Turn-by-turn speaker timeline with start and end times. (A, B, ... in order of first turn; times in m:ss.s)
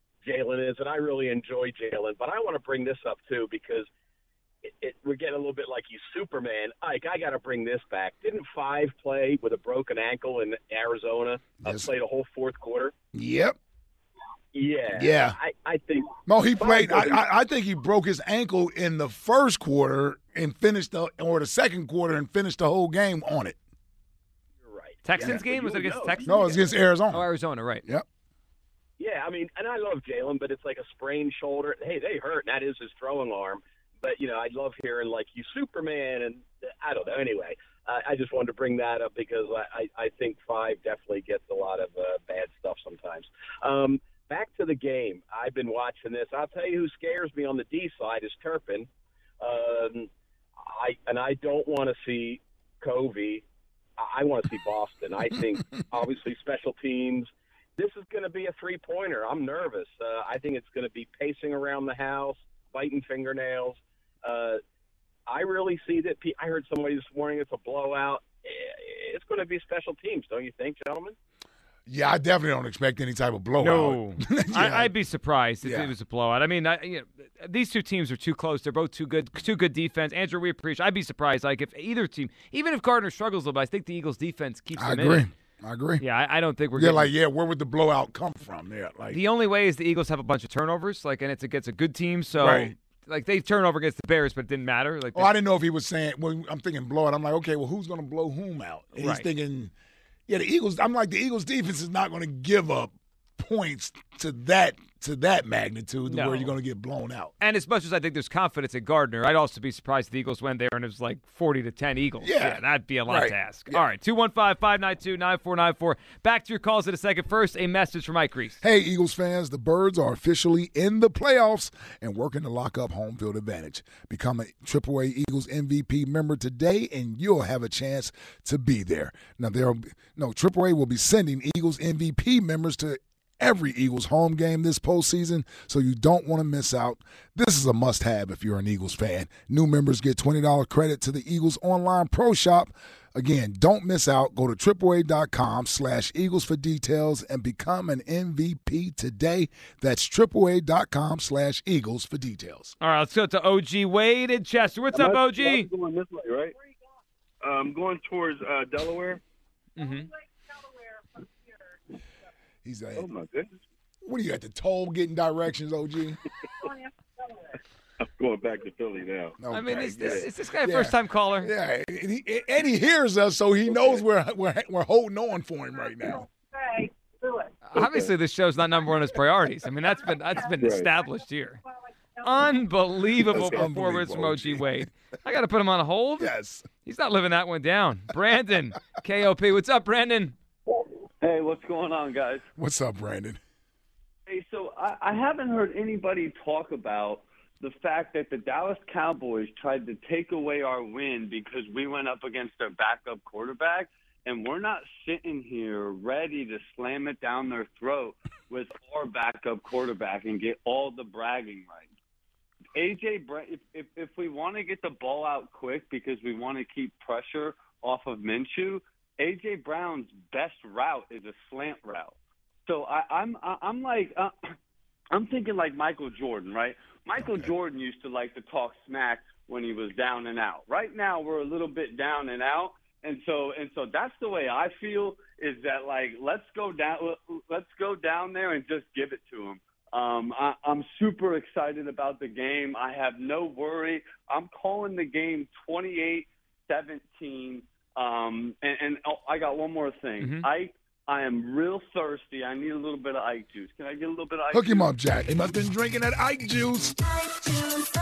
0:00.2-0:03.9 A
0:04.6-0:12.9 A
0:11.6-0:11.9 B
0:13.1-0:13.6 B
0:14.5-0:17.2 A
0:14.9-0:15.4 B
0:16.3-0:23.6 B
0:24.6-0:26.3 A
0:25.0-0:27.8 C
0:26.2-0:27.2 B
0:29.0-0:48.9 A
0:49.4-0:53.4 A
0:54.0-1:04.6 A
1:05.3-1:11.2 A
1:11.9-1:14.9 B
1:13.6-1:25.3 C
1:15.6-1:15.9 B
1:24.8-1:26.0 B
1:26.0-1:27.1 C
1:26.8-1:29.2 B
1:29.1-1:35.3 C
1:32.4-1:32.7 B
1:35.1-1:39.7 B
1:39.0-1:39.3 C
1:40.3-1:47.3 B
1:46.1-1:46.5 C
1:47.4-1:58.6 C
1:52.2-1:53.8 B
1:58.6-2:32.7 B
2:32.8-2:35.7 C
2:34.9-2:36.5 D
2:37.4-2:39.2 D
2:39.8-2:40.1 C
2:42.6-2:43.0 B
2:42.9-2:43.5 D
2:44.0-2:46.2 B
2:48.0-2:49.4 D
2:49.4-2:56.3 B
2:49.5-2:51.5 C
2:49.9-2:50.2 D
2:57.7-3:01.6 C
2:57.7-2:58.1 D
3:00.6-3:00.9 D
3:02.2-3:06.3 C
3:03.2-3:04.7 B
3:06.2-3:06.6 B
3:06.8-3:10.3 C
3:11.2-3:12.4 E
3:12.6-3:13.4 B
3:14.3-3:31.9 E
3:32.7-3:42.1 E
3:42.6-3:44.3 E
3:45.1-4:14.9 E
4:10.2-4:10.4 C
4:14.5-4:17.0 B